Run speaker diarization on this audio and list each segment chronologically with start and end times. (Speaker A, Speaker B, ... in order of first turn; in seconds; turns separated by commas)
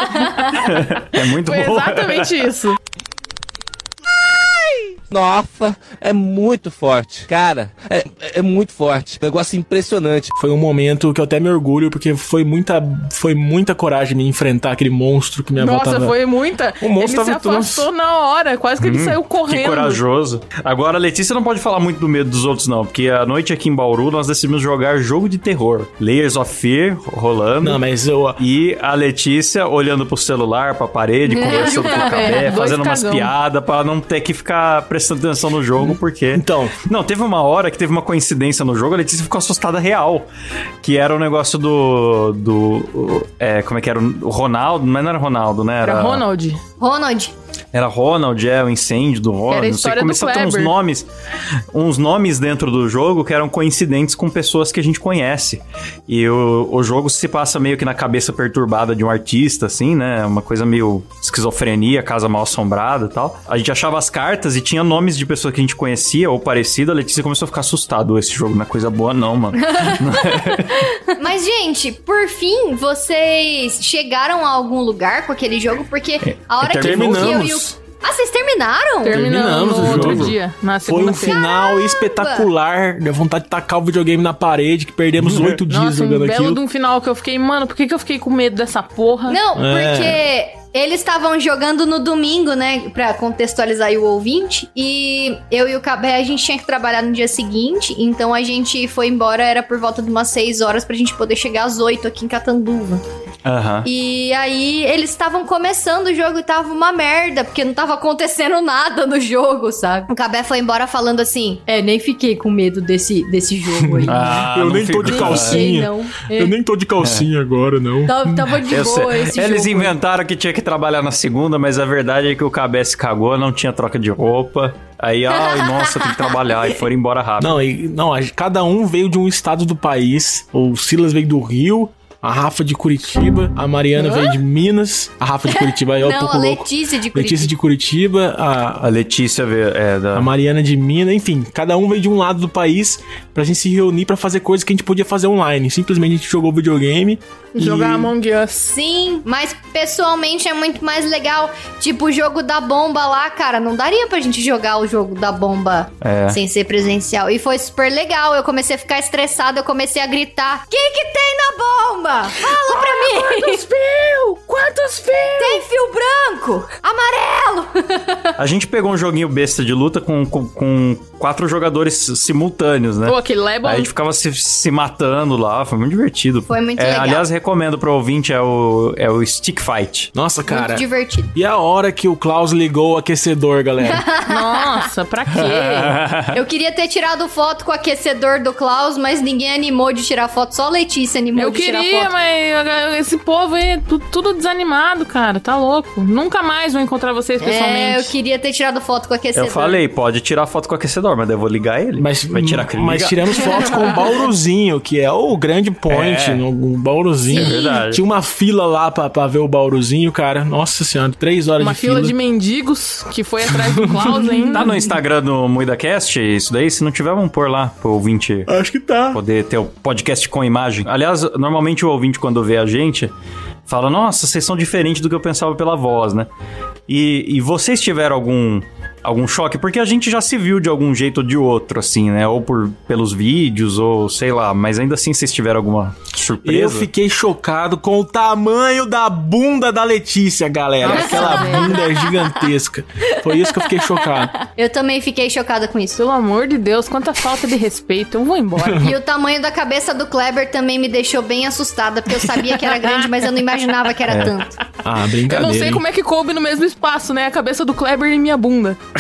Speaker A: 0.5-2.4, Speaker B: 1.4-2.8, Speaker C: 5.1-10.3, Speaker D: 10.3-16.2, Speaker B: 15.6-20.0, Speaker D: 16.8-17.9, Speaker A: 18.8-27.8, Speaker D: 27.6-28.4, Speaker A: 28.4-40.2, Speaker E: 31.3-32.4, Speaker B: 31.4-33.3, Speaker D: 35.8-36.7, Speaker A: 40.8-46.2, Speaker B: 45.8-46.6, Speaker E: 46.8-47.3, Speaker A: 47.7-51.1, Speaker B: 49.5-50.7, Speaker A: 51.7-70.9, Speaker E: 69.7-79.2, Speaker A: 76.2-77.4, Speaker D: 76.6-77.8, Speaker B: 79.0-81.4, Speaker D: 79.0-86.6, Speaker A: 79.8-80.3, Speaker E: 81.2-82.5, Speaker A: 85.2-85.6, Speaker B: 85.7-89.4, Speaker E: 89.3-103.0, Speaker D: 89.5-90.2, Speaker A: 103.4-103.9, Speaker E: 103.8-114.3, Speaker D: 113.8-118.5, Speaker A: 114.1-115.7, Speaker E: 115.0-116.5, Speaker E: 118.0-119.9, Speaker A: 118.7-127.6, Speaker E: 125.4-126.3, Speaker D: 127.4-138.9, Speaker E: 135.5-137.5, Speaker A: 138.8-140.3, Speaker D: 140.1-148.1, Speaker B: 147.5-148.7, Speaker E: 148.7-163.6, Speaker A: 156.0-156.4, Speaker B: 162.4-165.6, Speaker E: 165.4-168.3, Speaker A: 168.4-180.1, Speaker B: 173.1-173.9, Speaker E: 176.5-177.2, Speaker D: 180.1-184.0, Speaker E: 180.5-181.3, Speaker E: 183.8-184.8, Speaker B: 184.3-185.9, Speaker A: 185.3-186.3, Speaker E: 186.3-192.1, Speaker B: 191.3-198.1, Speaker E: 197.4-199.8, Speaker A: 199.3-203.6, Speaker D: 202.0-212.1, Speaker A: 205.9-206.4, Speaker E: 207.3-207.8, Speaker A: 207.3-208.0, Speaker B: 211.6-214.8, Speaker D: 213.4-214.3, Speaker A: 214.5-218.5, Speaker D: 218.5-219.2, Speaker A: 219.1-223.1, Speaker A: 223.7-226.3, Speaker A: 226.9-236.9, Speaker D: 236.4-244.3, Speaker B: 240.8-241.8, Speaker E: 240.9-242.1, Speaker E: 243.2-243.8, Speaker E: 244.4-246.0, Speaker B: 246.0-248.9, Speaker E: 248.8-254.6, Speaker A: 254.1-254.3, Speaker D: 254.8-255.8, Speaker B: 255.3-258.8